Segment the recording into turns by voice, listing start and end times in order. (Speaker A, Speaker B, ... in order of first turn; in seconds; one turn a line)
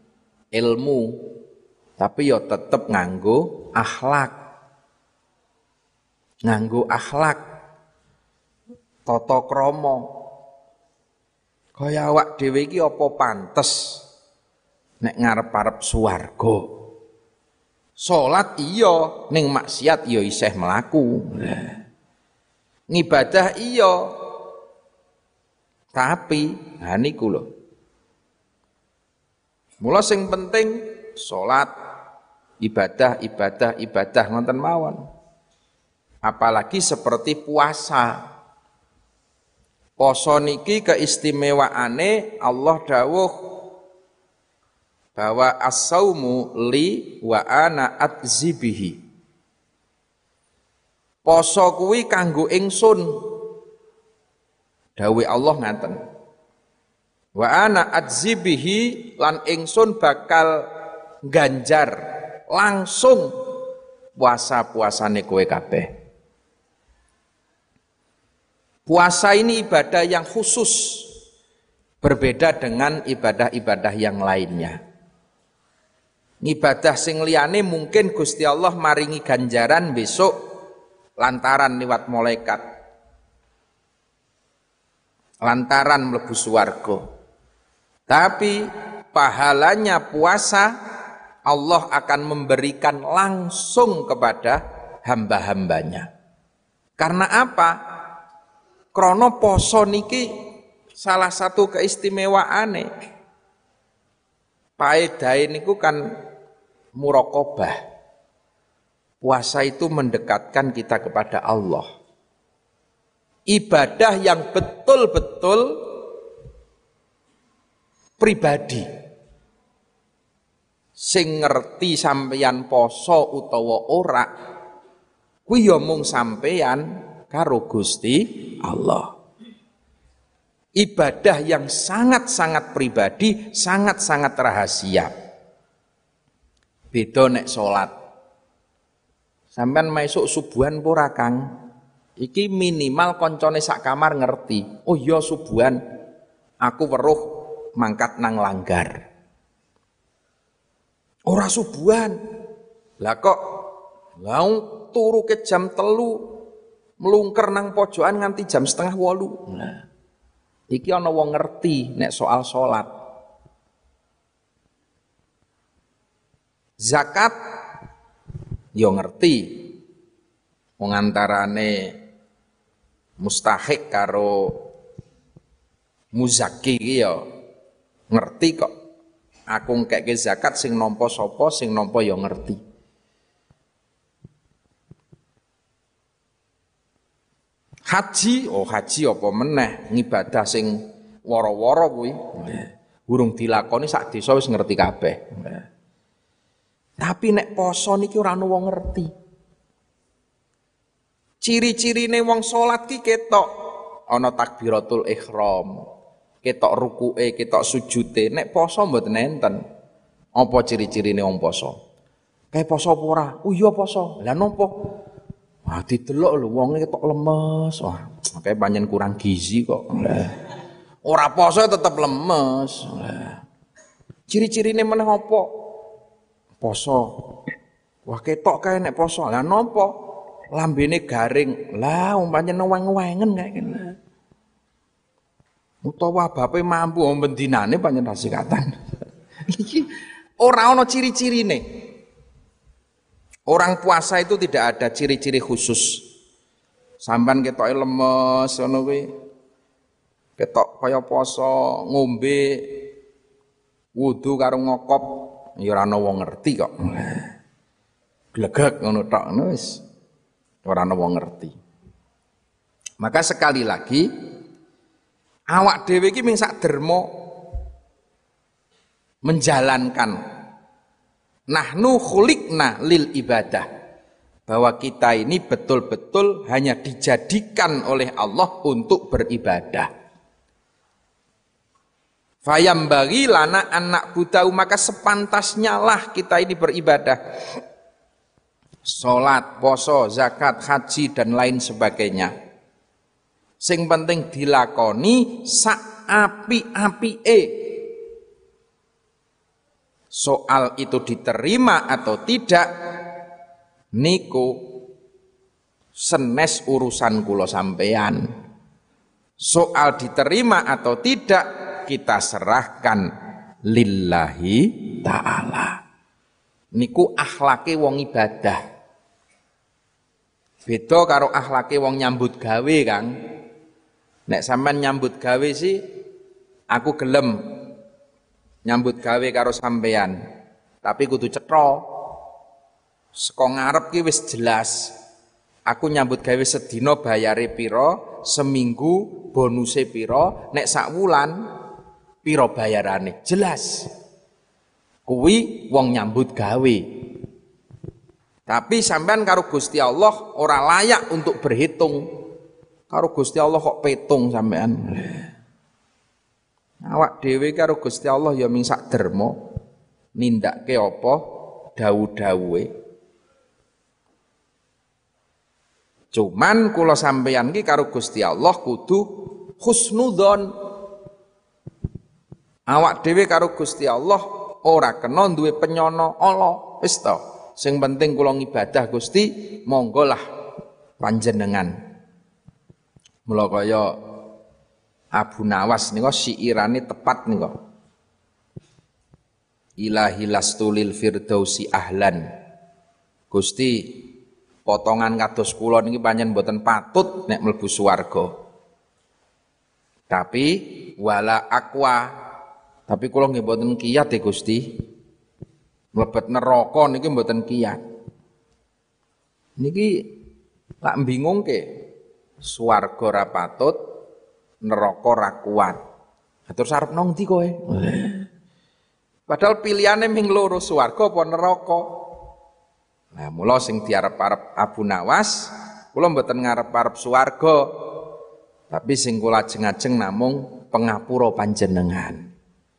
Speaker A: 0.5-1.2
Speaker A: 2.0-4.3
Speaker A: 6.5-7.4
Speaker A: 9.1-10.1
Speaker A: 11.8-14.0
Speaker A: 15.0-16.7
Speaker A: 18.0-21.8
Speaker A: 22.9-24.0
Speaker A: 25.9-27.5
Speaker A: 29.8-31.7
Speaker A: 32.6-35.0
Speaker A: 36.2-38.1
Speaker A: 40.0-43.3
Speaker A: 45.1-49.0
Speaker A: 51.2-53.1
Speaker A: 55.0-56.0
Speaker A: 57.4-60.5
Speaker A: 61.3-62.0
Speaker A: 62.5-63.3
Speaker A: 64.2-65.9
Speaker A: 68.9-71.1
Speaker A: 72.0-74.8
Speaker A: 76.4-80.3
Speaker A: 81.2-82.6
Speaker A: 85.4-87.0
Speaker A: 88.1-88.6
Speaker A: 89.1-90.7
Speaker A: 91.5-96.1
Speaker A: 97.0-97.7
Speaker A: 98.9-100.2
Speaker A: 101.0-102.9
Speaker A: 104.8-106.0
Speaker A: 107.0-107.8
Speaker A: 109.2-111.9
Speaker A: 113.5-115.7
Speaker A: 118.2-118.9
Speaker A: 121.0-124.3
Speaker A: 125.5-129.1
Speaker A: 130.8-135.1
Speaker A: 136.9-137.9
Speaker A: 139.5-141.4
Speaker A: 142.2-145.8
Speaker A: 146.6-149.0
Speaker A: 151.3-152.2
Speaker A: 153.0-153.4
Speaker A: 154.2-156.3
Speaker A: 157.0-159.8
Speaker A: 160.7-162.9
Speaker A: 166.8-167.4
Speaker A: 168.8-169.7
Speaker A: 170.8-171.9
Speaker A: 173.2-174.6
Speaker A: 176.1-177.2
Speaker A: 178.1-178.7
Speaker A: 179.5-182.6
Speaker A: 187.9-190.8
Speaker A: 191.3-195.6
Speaker A: 197.0-199.1
Speaker A: 201.4-203.5
Speaker A: 204.1-205.8
Speaker A: 206.4-209.6
Speaker A: 210.4-211.8
Speaker A: 212.5-214.7
Speaker A: 215.7-220.4
Speaker A: 221.0-223.4
Speaker A: 224.3-225.5
Speaker A: 226.6-227.1
Speaker A: 228.1-229.9
Speaker A: 230.5-233.9
Speaker A: 235.8-238.7
Speaker A: 239.5-241.6
Speaker A: 243.5-246.0
Speaker A: 247.0-249.1
Speaker A: 250.4-252.8
Speaker A: 254.0-257.3
Speaker A: 258.4-259.8
Speaker A: 260.6-261.6
Speaker A: 263.0-264.1
Speaker A: 265.5-267.1
Speaker A: 269.2-270.2
Speaker A: 271.5-273.7
Speaker A: 274.5-279.9
Speaker A: 282.4-287.2
Speaker A: 288.9-292.3
Speaker A: 293.6-297.8
Speaker A: 300.1-302.7
Speaker A: 304.0-304.5
Speaker A: 306.0-308.2
Speaker A: 309.4-313.1
Speaker A: 313.7-315.8
Speaker A: 316.8-318.6
Speaker A: 320.7-323.1
Speaker A: 324.3-325.8
Speaker A: 326.7-327.6
Speaker A: 328.6-330.2
Speaker A: 330.8-331.8
Speaker A: 333.2-334.9
Speaker A: 335.7-341.4
Speaker A: 342.2-343.9
Speaker A: 345.1-346.8
Speaker A: 348.5-352.0
Speaker A: 352.9-355.2
Speaker A: 356.8-359.4
Speaker A: 360.2-361.2
Speaker A: 361.8-362.7
Speaker A: 366.1-369.1
Speaker A: 369.6-370.5
Speaker A: 372.7-380.2
Speaker A: 381.0-381.7
Speaker A: 383.3-383.9
Speaker A: 385.1-387.5
Speaker A: 389.8-392.2
Speaker A: 393.3-394.0
Speaker A: 394.6-398.3
Speaker A: 400.1-402.1
Speaker A: 402.9-404.8
Speaker A: 405.9-407.8
Speaker A: 409.6-410.1
Speaker A: 410.8-411.6
Speaker A: 412.4-413.8
Speaker A: 414.6-415.8
Speaker A: 416.5-418.2
Speaker A: 419.3-421.9
Speaker A: 423.1-427.6
Speaker A: 428.7-432.2